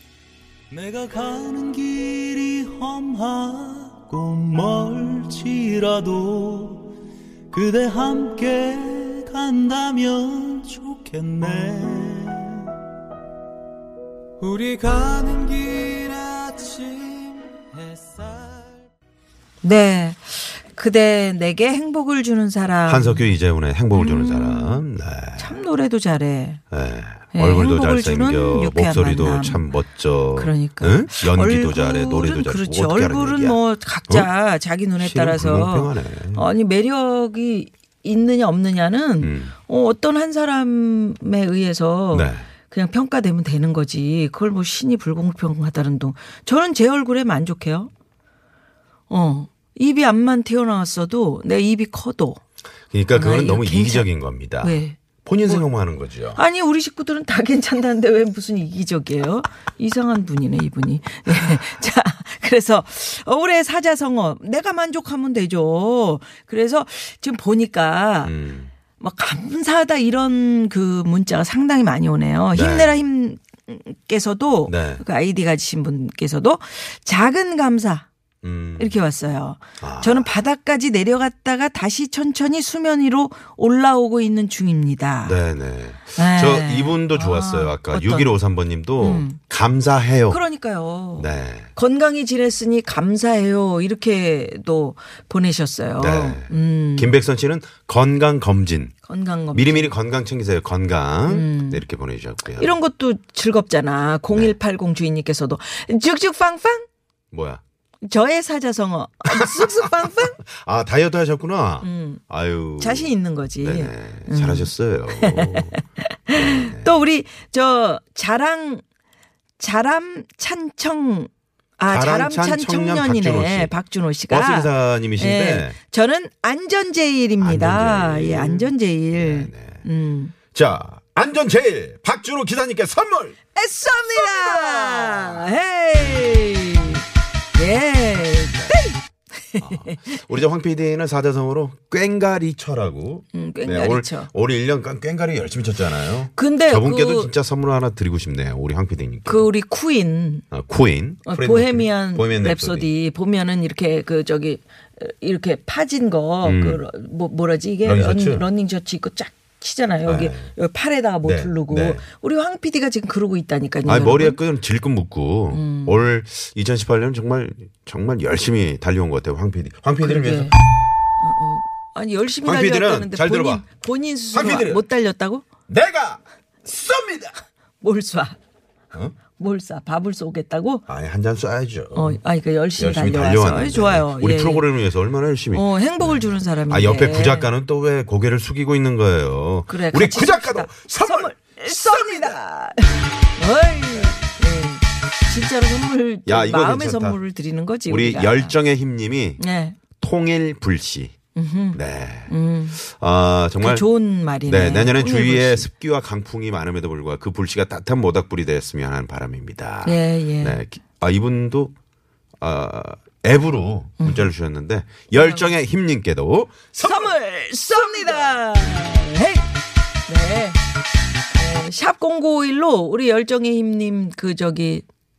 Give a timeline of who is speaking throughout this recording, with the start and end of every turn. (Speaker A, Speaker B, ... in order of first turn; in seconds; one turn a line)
Speaker A: 0.7-6.9
Speaker A: 7.5-12.7
Speaker A: 14.4-18.9
Speaker B: 19.6-23.2
Speaker C: 22.9-25.6
Speaker B: 24.0-24.8
Speaker B: 25.4-26.6
Speaker C: 26.7-34.3
Speaker B: 27.3-29.6
Speaker B: 30.4-47.9
Speaker C: 35.0-36.5
Speaker C: 39.2-39.5
Speaker C: 42.1-42.5
Speaker B: 49.1-52.4
Speaker C: 52.9-56.4
Speaker B: 53.1-54.1
Speaker B: 54.6-55.0
Speaker B: 56.4-68.3
Speaker C: 68.2-68.7
Speaker B: 69.0-78.1
Speaker C: 72.5-73.0
Speaker C: 74.7-75.0
Speaker C: 78.4-79.0
Speaker B: 78.8-85.4
Speaker C: 79.8-80.3
Speaker C: 85.2-90.4
Speaker B: 86.2-88.3
Speaker B: 89.0-89.4
Speaker B: 90.3-97.1
Speaker C: 91.2-91.7
Speaker C: 96.0-98.9
Speaker B: 99.1-99.9
Speaker C: 99.5-102.8
Speaker B: 101.3-101.8
Speaker B: 102.6-106.9
Speaker C: 104.3-104.5
Speaker C: 107.3-107.6
Speaker B: 108.0-110.4
Speaker C: 109.3-115.8
Speaker B: 111.8-112.2
Speaker B: 112.8-118.8
Speaker C: 116.3-117.0
Speaker B: 119.6-130.3
Speaker C: 121.9-123.7
Speaker C: 124.3-125.8
Speaker C: 127.4-129.8
Speaker C: 130.5-133.4
Speaker B: 133.6-137.0
Speaker C: 134.2-135.4
Speaker B: 137.6-139.0
Speaker B: 139.5-140.0
Speaker C: 139.6-149.5
Speaker B: 143.3-144.3
Speaker B: 146.4-147.3
Speaker B: 149.3-150.4
Speaker C: 150.5-152.9
Speaker B: 151.3-164.4
Speaker C: 156.4-156.8
Speaker C: 157.8-158.5
Speaker C: 160.1-160.5
Speaker C: 161.2-162.0
Speaker C: 163.8-170.6
Speaker B: 165.5-166.0
Speaker B: 170.0-170.6
Speaker B: 171.2-175.5
Speaker C: 172.4-173.7
Speaker C: 174.3-174.8
Speaker C: 175.7-177.3
Speaker B: 177.8-178.4
Speaker B: 179.4-180.8
Speaker C: 180.9-182.2
Speaker B: 181.9-184.7
Speaker C: 182.8-192.4
Speaker B: 185.5-187.5
Speaker B: 189.7-198.6
Speaker C: 193.9-194.2
Speaker C: 196.3-197.2
Speaker C: 197.9-199.4
Speaker B: 199.4-199.8
Speaker C: 199.9-201.2
Speaker B: 201.4-202.8
Speaker C: 201.7-203.9
Speaker B: 203.6-205.7
Speaker C: 204.4-211.7
Speaker B: 209.8-210.6
Speaker C: 212.4-217.1
Speaker B: 214.0-214.3
Speaker B: 215.1-215.5
Speaker B: 216.8-219.4
Speaker C: 217.8-218.3
Speaker B: 220.1-220.6
Speaker B: 221.3-224.8